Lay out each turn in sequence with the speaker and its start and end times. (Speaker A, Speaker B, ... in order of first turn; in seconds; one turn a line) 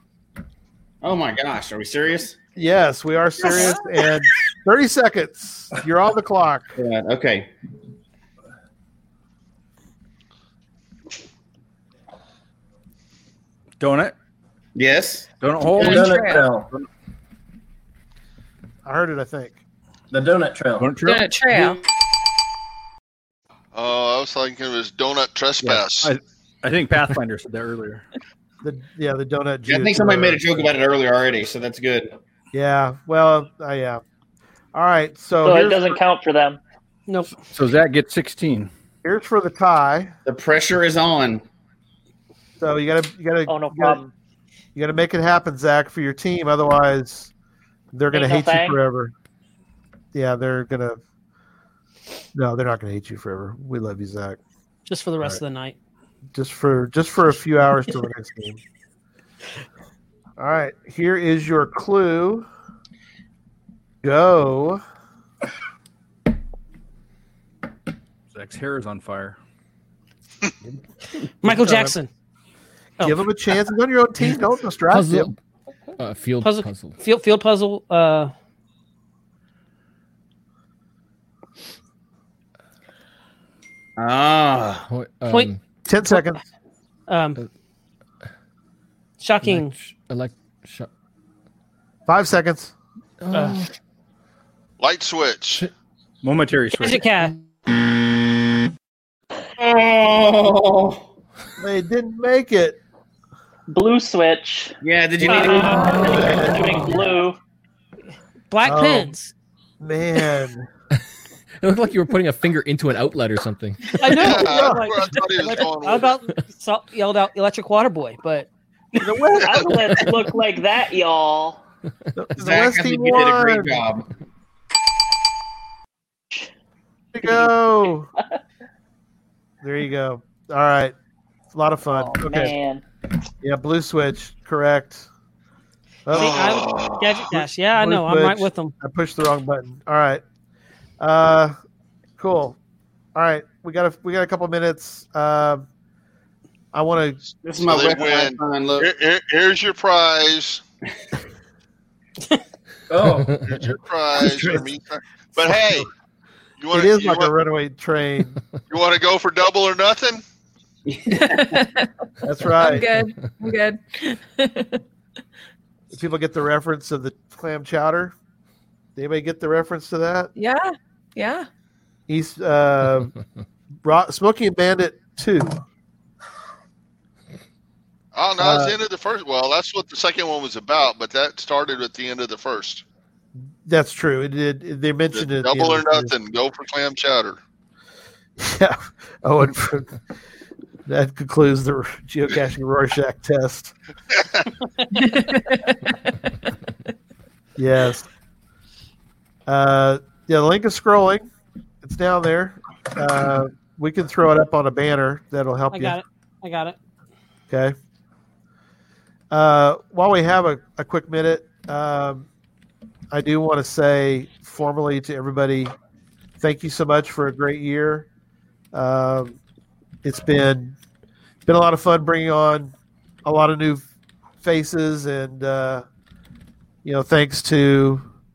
Speaker A: 1.0-2.4
Speaker B: 2.6-6.7
Speaker C: 3.4-3.8
Speaker A: 6.8-7.5
Speaker D: 13.8-14.1
Speaker A: 14.8-16.0
Speaker D: 15.4-16.9
Speaker E: 15.8-16.7
Speaker C: 15.8-16.5
Speaker B: 18.9-19.6
Speaker E: 20.1-21.0
Speaker D: 20.8-21.3
Speaker C: 21.0-21.8
Speaker F: 23.7-26.1
Speaker D: 25.6-28.1
Speaker B: 28.6-30.7
Speaker A: 29.7-32.2
Speaker B: 32.5-34.0
Speaker B: 34.7-36.0
Speaker G: 35.4-36.6
Speaker H: 37.1-37.4
Speaker D: 37.5-38.7
Speaker B: 39.0-40.1
Speaker A: 40.3-41.4
Speaker B: 42.6-44.0
Speaker G: 43.5-44.1
Speaker B: 44.8-47.3
Speaker B: 47.9-49.1
Speaker G: 48.1-48.8
Speaker B: 50.1-51.0
Speaker B: 52.4-54.4
Speaker H: 54.9-55.8
Speaker B: 56.3-58.6
Speaker B: 60.4-62.5
Speaker B: 64.0-64.8
Speaker D: 68.3-69.4
Speaker H: 71.4-72.1
Speaker B: 71.4-72.0
Speaker B: 73.0-75.3
Speaker I: 74.9-75.4
Speaker I: 76.0-77.0
Speaker H: 76.4-78.3
Speaker A: 84.0-84.9
Speaker I: 84.9-85.6
Speaker B: 85.9-86.4
Speaker H: 87.1-87.4
Speaker H: 89.2-89.7
Speaker I: 89.4-90.9
Speaker B: 92.1-92.7
Speaker I: 93.2-93.7
Speaker H: 93.3-93.6
Speaker F: 94.8-95.7
Speaker D: 96.2-97.0
Speaker H: 96.8-97.3
Speaker A: 99.6-101.1
Speaker B: 101.6-102.8
Speaker G: 103.7-104.8
Speaker A: 104.8-106.3
Speaker B: 105.3-106.8
Speaker G: 105.3-107.4
Speaker H: 108.5-109.3
Speaker B: 108.7-109.1
Speaker B: 109.8-110.7
Speaker I: 111.6-113.9
Speaker H: 114.0-118.5
Speaker F: 114.1-116.1
Speaker B: 114.2-114.9
Speaker B: 119.0-120.0
Speaker G: 119.4-121.6
Speaker B: 122.2-123.8
Speaker A: 122.4-124.1
Speaker B: 127.1-128.1
Speaker B: 129.6-130.9
Speaker B: 131.5-132.5
Speaker G: 131.9-132.8
Speaker B: 133.4-135.1
Speaker B: 136.1-136.6
Speaker F: 136.1-137.2
Speaker H: 136.1-138.7
Speaker B: 137.4-140.2
Speaker B: 141.0-141.6
Speaker B: 142.2-142.6
Speaker B: 143.2-145.7
Speaker B: 146.7-147.2
Speaker A: 147.4-148.9
Speaker F: 147.6-150.6
Speaker E: 152.9-153.4
Speaker F: 153.4-155.9
Speaker B: 154.2-154.7
Speaker B: 155.4-155.8
Speaker F: 156.6-157.3
Speaker B: 156.7-158.4
Speaker F: 158.7-160.2
Speaker A: 160.9-161.6
Speaker C: 161.1-161.9
Speaker B: 162.2-162.9
Speaker C: 162.5-164.8
Speaker B: 165.9-168.2
Speaker B: 169.0-170.3
Speaker C: 170.4-171.5
Speaker B: 172.1-173.1
Speaker B: 173.8-175.6
Speaker F: 178.1-182.8
Speaker B: 178.4-178.8
Speaker B: 183.7-186.1
Speaker F: 185.1-187.4
Speaker B: 188.4-189.9
Speaker B: 190.9-193.8
Speaker F: 194.1-194.5
Speaker C: 194.9-195.8
Speaker B: 197.6-198.1
Speaker B: 199.5-201.3
Speaker B: 201.8-206.0
Speaker H: 205.7-206.8
Speaker B: 207.5-207.8
Speaker B: 209.3-212.3
Speaker B: 213.1-215.7
Speaker B: 216.4-218.1
Speaker B: 218.7-219.4
Speaker B: 220.0-220.8
Speaker B: 221.5-222.7
Speaker B: 223.2-223.9
Speaker B: 224.4-225.8
Speaker B: 226.8-228.1